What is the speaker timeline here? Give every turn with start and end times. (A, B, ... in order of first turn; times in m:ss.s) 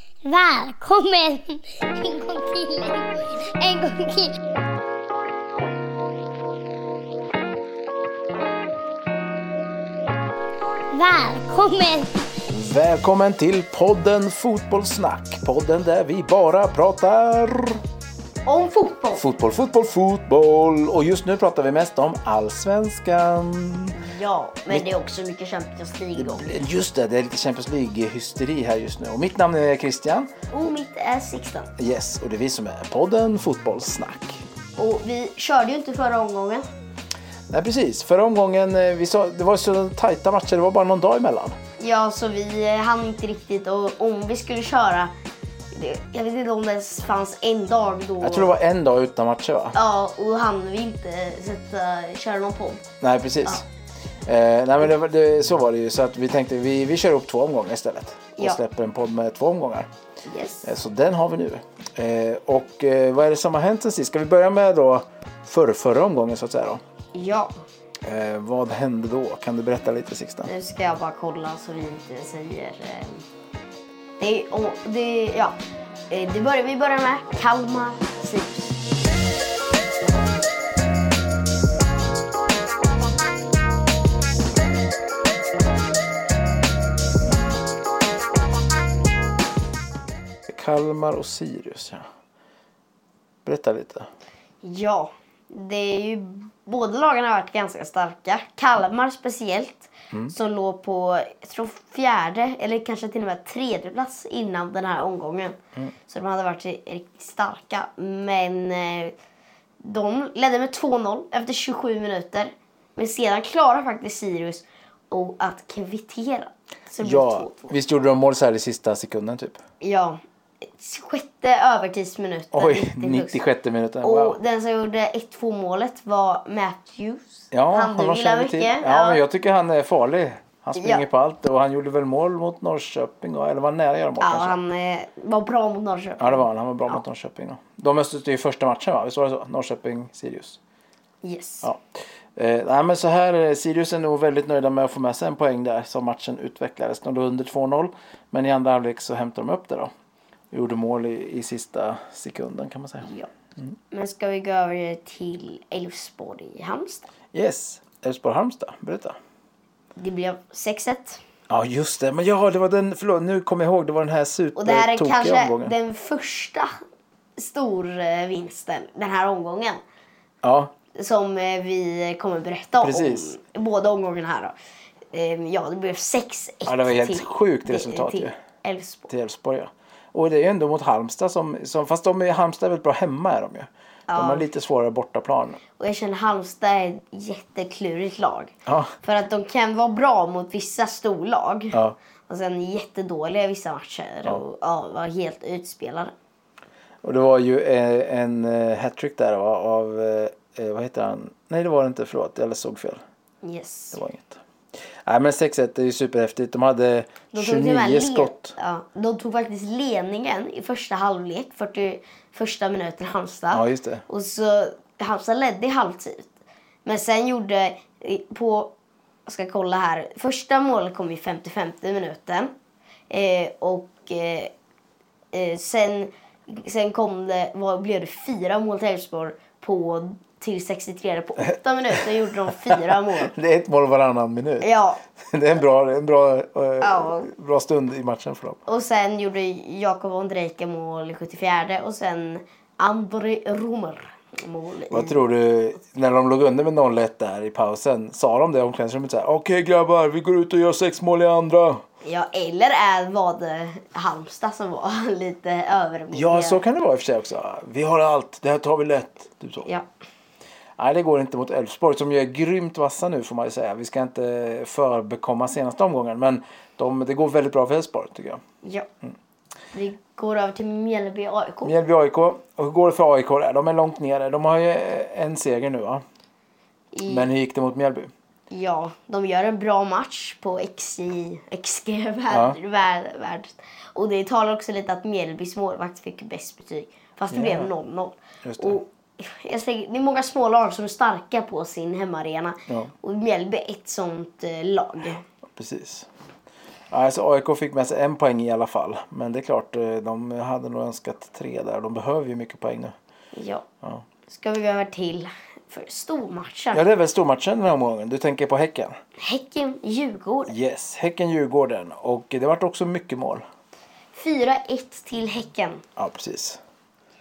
0:00.2-0:04.4 A
0:10.9-0:12.3 A
0:12.5-0:17.8 B
0:18.5-0:19.2 C
0:19.2-0:24.0 B
0:23.9-0:26.6 C
0:26.2-0:30.3 B
0:30.5-0:31.7 C
0:31.8-0:34.4 B
0:34.8-0:36.7 C
0:37.5-0:41.6 B
0:41.8-0:45.1 C
0:45.7-0:48.6 C
0:48.2-0:49.8 B
0:49.8-0:52.9 C
0:53.0-0:53.6 B
0:54.2-0:59.9 B
1:00.3-1:00.7 C
1:00.6-1:06.8 B
1:07.1-1:07.5 C
1:08.0-1:10.5 B
1:10.5-1:13.2 C
1:14.2-1:15.6 C
1:16.1-1:18.8 C
1:27.3-1:27.6 B
1:30.5-1:32.1 B
1:33.4-1:34.1 B
1:34.6-1:49.2 C
1:49.8-1:57.8 C
1:57.0-1:59.6 B
1:59.8-2:03.4 C
2:02.5-2:04.4 B
2:04.0-2:09.2 C
2:07.5-2:14.6 B
2:10.8-2:11.0 C
2:14.2-2:17.0 C
2:16.2-2:20.6 B
2:21.2-2:21.7 C
2:22.4-2:29.9 B
2:30.5-2:33.7 B
2:33.0-2:33.3 C
2:33.9-2:37.1 C
2:37.3-2:39.2 B
2:40.0-2:41.2 C
2:41.5-2:45.7 B
2:44.6-2:46.8 C
2:47.4-2:49.8 C
2:50.4-2:50.7 B
2:51.0-2:54.6 C
2:52.8-2:53.3 B
2:55.1-2:59.1 C
2:56.7-2:58.4 B
2:59.1-3:05.6 B
3:04.1-3:04.5 C
3:05.8-3:16.1 C
3:08.7-3:08.9 B
3:17.0-3:23.0 B
3:23.4-3:24.0 C
3:23.9-3:24.4 B
3:25.0-3:28.6 B
3:27.3-3:36.3 C
3:33.5-3:34.0 B
3:36.8-3:38.7 C
3:39.3-3:42.5 C
3:43.1-3:44.5 C
3:45.3-3:53.3 C
3:52.7-3:58.6 B
3:54.6-3:55.0 C
3:56.8-3:57.3 C
3:58.7-4:05.2 C
4:04.9-4:11.8 B
4:12.0-4:16.6 C
4:16.1-4:19.7 B
4:20.8-4:28.4 B
4:28.6-4:28.9 C
4:29.7-4:31.8 C
4:31.6-4:36.0 B
4:36.9-4:37.3 C
4:37.1-4:38.1 B
4:38.5-4:55.2 C
4:42.3-4:42.6 B
4:47.3-4:47.7 B
4:48.4-4:48.8 B
4:52.7-4:52.9 B
4:55.6-4:56.1 B
4:56.9-5:03.0 B
5:03.3-5:03.7 C
5:04.3-5:06.8 C
5:06.7-5:09.0 B
5:09.2-5:10.5 C
5:10.5-5:13.4 B
5:14.1-5:15.8 C
5:16.0-5:16.6 B